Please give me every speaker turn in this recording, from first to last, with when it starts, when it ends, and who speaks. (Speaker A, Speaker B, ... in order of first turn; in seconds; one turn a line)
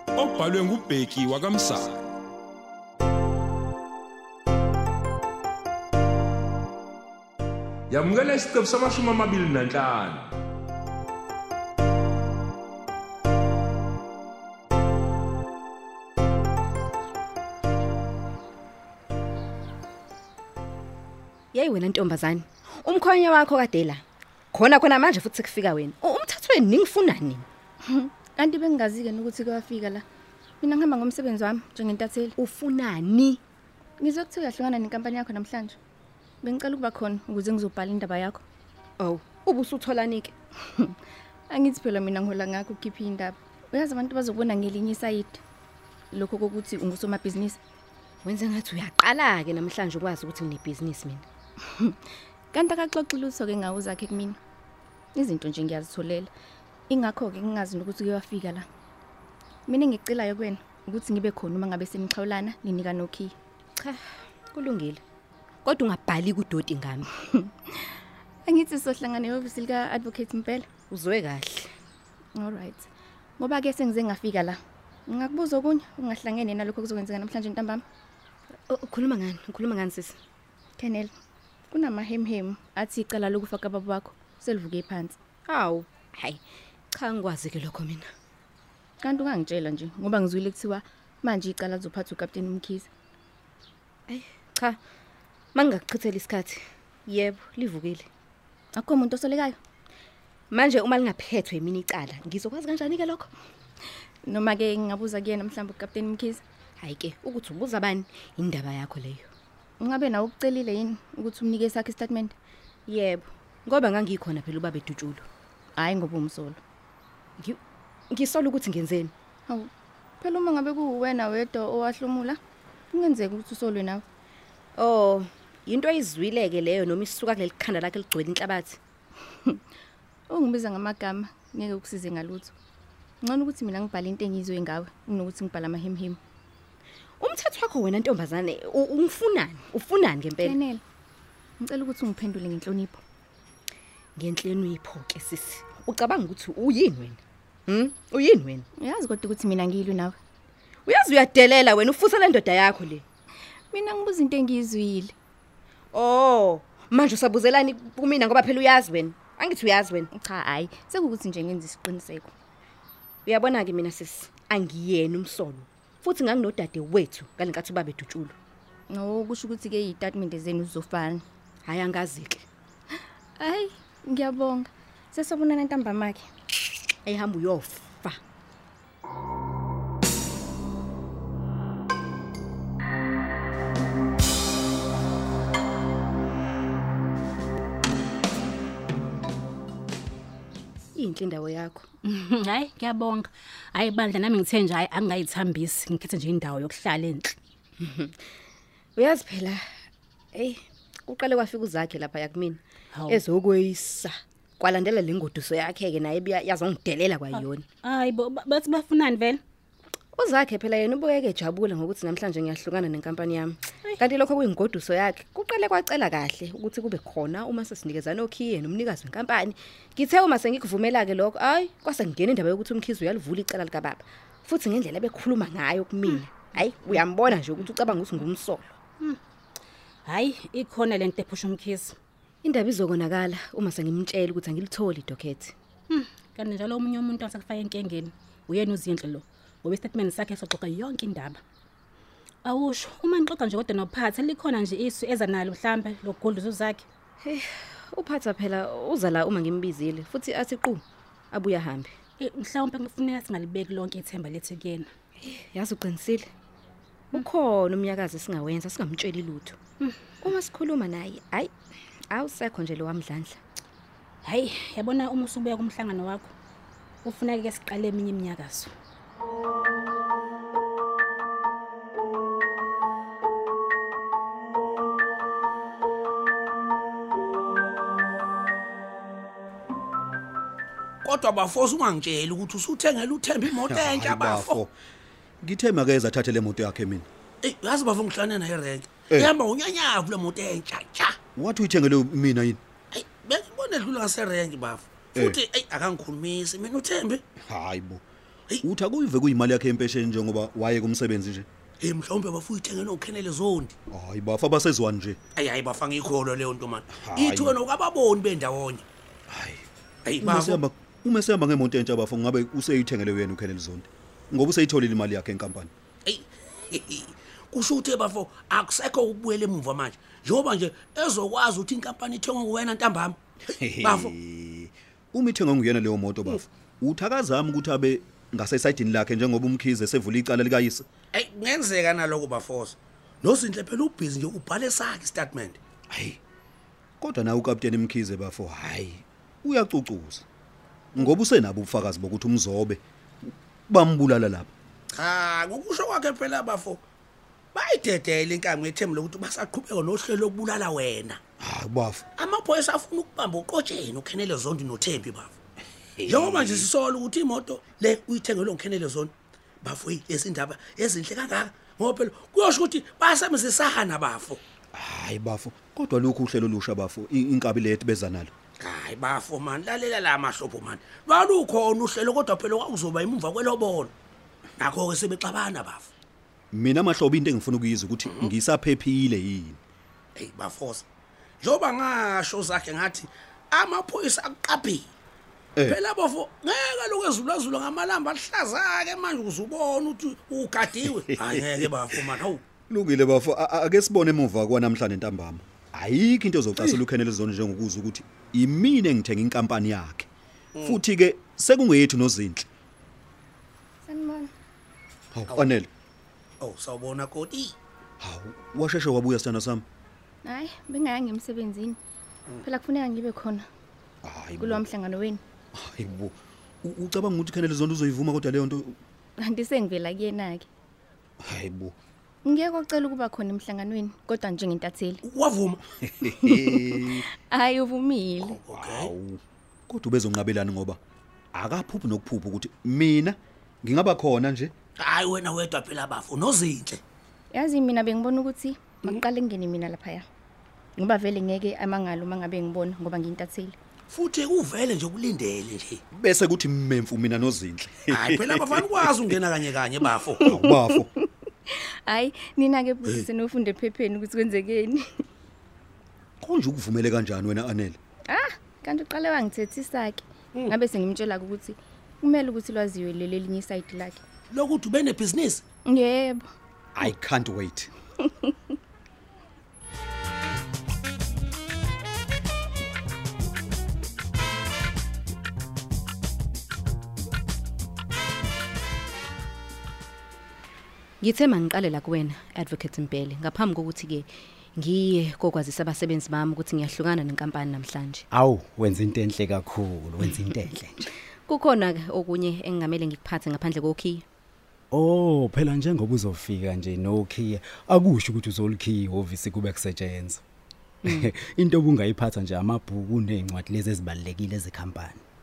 Speaker A: 0.1-2.1
Speaker A: 7.9-10.3
Speaker B: 21.5-24.0
Speaker B: 24.5-27.4
Speaker C: 27.8-30.1
Speaker C: 30.6-32.3
Speaker B: 32.4-33.4
Speaker C: 34.0-35.8
Speaker C: 36.4-38.4
Speaker B: 39.0-40.3
Speaker C: 41.5-45.4
Speaker C: 46.1-47.6
Speaker B: 48.2-51.2
Speaker C: 52.5-54.4
Speaker C: 55.1-56.3
Speaker C: 56.9-58.7
Speaker C: 59.7-63.3
Speaker B: 63.8-65.0
Speaker B: 65.6-67.1
Speaker C: 68.5-70.7
Speaker B: 70.9-71.7
Speaker C: 72.3-77.8
Speaker B: 78.7-80.2
Speaker C: 80.8-81.1
Speaker C: 81.7-85.2
Speaker B: 85.5-86.4
Speaker B: 86.9-88.1
Speaker C: 89.0-92.9
Speaker B: 94.1-94.8
Speaker B: 95.5-98.1
Speaker C: 98.8-99.6
Speaker B: 100.5-103.3
Speaker C: 104.3-106.4
Speaker B: 106.8-109.3
Speaker C: 109.8-112.3
Speaker B: 112.9-115.2
Speaker C: 115.8-116.6
Speaker B: 118.1-119.1
Speaker C: 120.2-122.4
Speaker C: 122.9-124.0
Speaker B: 124.8-128.8
Speaker C: 130.3-132.5
Speaker C: 133.2-136.2
Speaker B: 137.2-140.6
Speaker C: 140.4-140.8
Speaker C: 141.6-143.0
Speaker B: 144.2-148.7
Speaker C: 148.8-150.2
Speaker B: 150.8-153.0
Speaker C: 153.7-155.1
Speaker B: 155.9-160.1
Speaker C: 160.2-162.3
Speaker B: 163.2-168.3
Speaker C: 168.9-171.2
Speaker B: 171.7-172.5
Speaker C: 173.4-176.2
Speaker B: 177.1-178.2
Speaker B: 190.9-191.8
Speaker D: 192.0-197.3
Speaker B: 197.8-198.1
Speaker B: 199.0-199.6
Speaker B: 200.3-207.7
Speaker D: 202.9-203.2
Speaker D: 207.3-209.4
Speaker B: 210.2-228.7
Speaker D: 226.1-226.4
Speaker D: 230.1-231.9
Speaker B: 232.4-235.5
Speaker D: 235.9-241.4
Speaker D: 242.4-246.8
Speaker B: 247.2-251.9
Speaker D: 252.2-254.9
Speaker B: 255.2-256.3
Speaker B: 257.1-259.6
Speaker D: 259.8-260.1
Speaker B: 260.2-261.5
Speaker B: 262.1-263.4
Speaker D: 264.2-266.3
Speaker D: 267.0-268.7
Speaker E: 281.0-284.6
Speaker F: 283.6-284.7
Speaker F: 285.4-287.1
Speaker E: 287.4-291.2
Speaker F: 291.4-292.6
Speaker E: 292.9-297.2
Speaker F: 297.5-298.0
Speaker F: 298.6-301.5
Speaker E: 301.8-303.8
Speaker F: 303.9-305.2
Speaker E: 305.4-308.9
Speaker F: 307.0-307.6
Speaker F: 309.3-309.6
Speaker E: 310.0-310.6
Speaker F: 310.2-315.7
Speaker E: 316.0-324.1
Speaker F: 323.7-330.9
Speaker E: 331.1-335.6
Speaker F: 335.9-336.2
Speaker F: 337.0-340.2
Speaker F: 340.9-344.5
Speaker E: 344.9-346.9
Speaker E: 347.5-351.2
Speaker F: 351.4-352.0
Speaker E: 352.1-355.4
Speaker F: 356.0-356.7
Speaker E: 356.0-364.4
Speaker F: 364.8-368.3
Speaker E: 368.6-373.9
Speaker E: 374.6-375.9
Speaker F: 376.5-379.6
Speaker E: 378.0-378.3
Speaker E: 380.1-380.9
Speaker E: 381.4-384.9
Speaker E: 385.6-392.4
Speaker F: 391.1-392.1
Speaker F: 392.7-400.1
Speaker E: 400.5-400.8
Speaker F: 400.6-402.4
Speaker C: 403.8-404.3
Speaker F: 405.1-405.7
Speaker E: 405.2-405.6
Speaker E: 406.4-407.6
Speaker F: 408.0-409.6
Speaker C: 410.2-411.8
Speaker C: 412.4-413.5
Speaker F: 414.0-414.7
Speaker C: 414.4-415.2
Speaker F: 415.6-418.8
Speaker C: 419.2-420.5
Speaker F: 421.2-421.8
Speaker C: 422.2-425.0
Speaker E: 425.0-426.1
Speaker F: 426.1-427.0
Speaker C: 426.2-428.3
Speaker E: 428.2-428.9
Speaker F: 428.5-430.8
Speaker F: 431.3-434.5
Speaker E: 434.8-436.8
Speaker C: 437.3-440.0
Speaker C: 440.8-443.6
Speaker E: 443.9-445.8
Speaker F: 446.0-449.0
Speaker E: 447.9-450.3
Speaker C: 450.2-450.8
Speaker F: 450.2-450.9
Speaker C: 451.5-455.0
Speaker F: 456.2-457.8
Speaker C: 458.1-464.0
Speaker E: 464.3-465.4
Speaker C: 465.6-466.2
Speaker F: 466.8-467.7
Speaker B: 481.0-488.0
Speaker G: 488.1-490.9
Speaker B: 491.3-494.0
Speaker G: 494.7-500.2
Speaker B: 500.8-501.1
Speaker G: 500.9-505.0